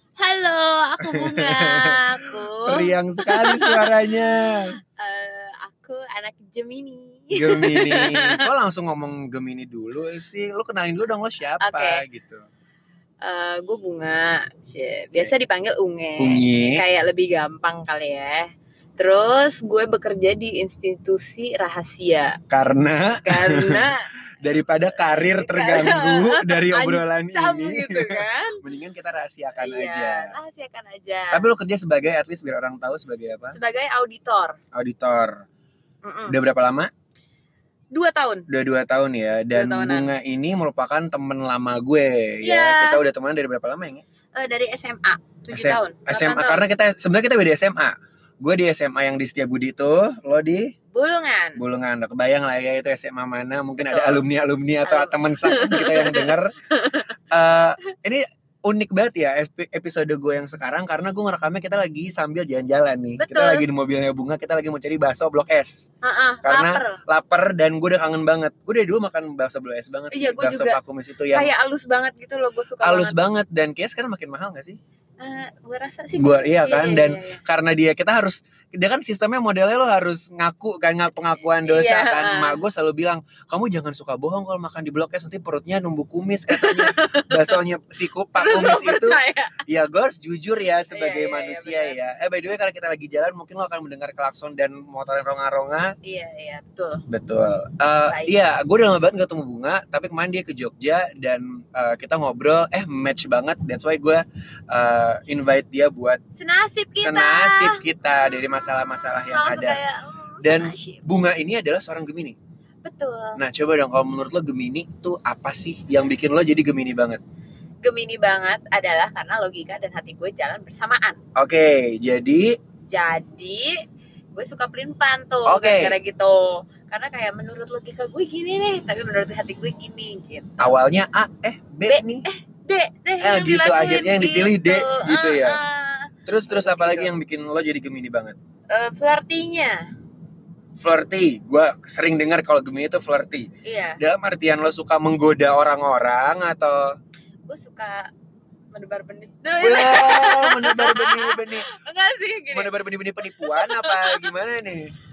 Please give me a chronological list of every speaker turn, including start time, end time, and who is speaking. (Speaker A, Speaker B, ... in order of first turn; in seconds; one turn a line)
Speaker A: 0.2-4.2
Speaker B: 1.0-4.8
Speaker A: 5.0-8.5
Speaker B: 7.3-12.4
Speaker A: 11.6-12.0
Speaker A: 13.2-22.4
Speaker B: 16.2-16.8
Speaker B: 22.5-30.3
Speaker A: 23.2-24.1
Speaker A: 25.1-28.6
Speaker A: 29.5-31.5
Speaker B: 31.3-33.5
Speaker A: 33.5-34.6
Speaker B: 34.7-35.4
Speaker A: 36.0-36.4
Speaker B: 36.3-36.9
Speaker A: 37.9-38.5
Speaker B: 38.5-44.0
Speaker A: 39.5-40.1
Speaker A: 42.4-43.0
Speaker A: 44.4-46.6
Speaker B: 45.5-50.7
Speaker A: 50.9-51.6
Speaker B: 51.6-56.6
Speaker A: 53.8-54.2
Speaker A: 54.8-57.1
Speaker B: 57.3-65.9
Speaker A: 63.2-63.7
Speaker A: 66.0-67.0
Speaker B: 66.4-71.5
Speaker A: 70.1-70.8
Speaker A: 71.3-73.2
Speaker B: 72.8-74.8
Speaker A: 75.2-77.4
Speaker B: 76.2-96.0
Speaker A: 81.6-82.6
Speaker A: 86.5-87.6
Speaker A: 88.4-89.6
Speaker A: 90.9-92.0
Speaker A: 96.0-97.0
Speaker B: 97.1-106.2
Speaker A: 98.0-98.4
Speaker A: 106.3-111.1
Speaker B: 107.0-109.8
Speaker B: 110.4-112.4
Speaker A: 112.8-113.4
Speaker B: 113.3-117.2
Speaker A: 117.8-121.2
Speaker B: 121.3-122.6
Speaker A: 122.9-123.8
Speaker A: 124.3-130.8
Speaker B: 125.5-126.0
Speaker B: 130.6-132.2
Speaker A: 131.9-137.1
Speaker B: 133.2-135.6
Speaker B: 136.2-138.3
Speaker A: 138.7-139.9
Speaker B: 140.8-147.0
Speaker A: 143.6-144.0
Speaker A: 147.5-148.1
Speaker A: 148.7-154.3
Speaker B: 149.6-151.7
Speaker B: 152.5-154.9